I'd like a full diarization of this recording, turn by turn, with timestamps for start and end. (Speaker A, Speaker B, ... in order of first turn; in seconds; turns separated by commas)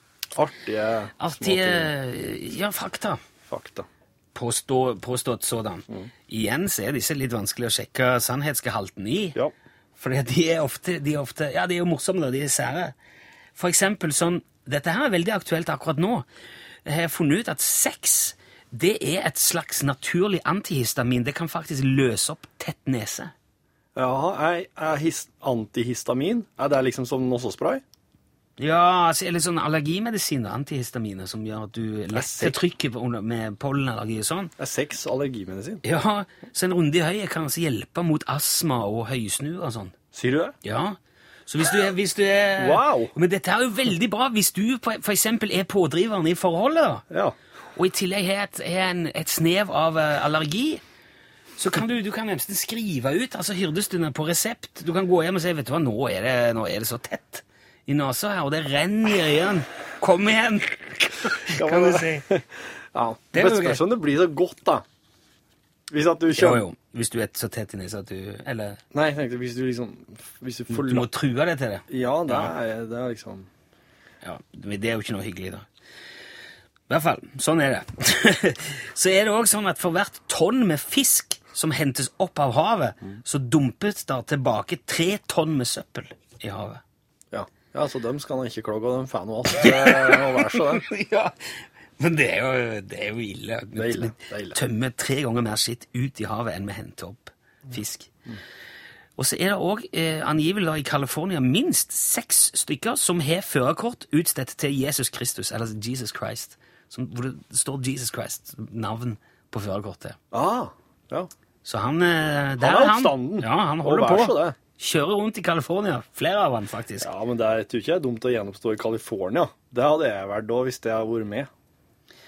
Speaker A: 0.3-1.9, Speaker B: 1.2-3.2, Speaker A: 3.5-3.9, Speaker B: 4.3-9.4, Speaker B: 9.9-12.9, Speaker B: 13.6-16.2, Speaker B: 16.9-23.3, Speaker A: 23.9-27.8, Speaker B: 28.6-34.5, Speaker A: 32.1-32.6, Speaker A: 34.6-35.8, Speaker B: 35.8-39.9, Speaker A: 40.1-40.5, Speaker B: 40.6-47.0, Speaker A: 42.6-43.1, Speaker A: 47.1-47.4, Speaker B: 47.8-50.8, Speaker B: 51.6-62.3, Speaker A: 61.5-64.8, Speaker B: 63.3-63.8, Speaker A: 65.9-66.6, Speaker B: 66.3-68.8, Speaker A: 68.9-71.1, Speaker B: 70.7-72.5, Speaker A: 71.9-73.5, Speaker B: 74.2-75.6, Speaker B: 76.9-86.8, Speaker A: 87.3-90.9, Speaker B: 89.6-98.1, Speaker A: 93.8-94.6, Speaker B: 99.2-110.2, Speaker A: 110.3-111.3, Speaker B: 111.6-117.1, Speaker A: 112.6-114.5, Speaker A: 117.0-121.5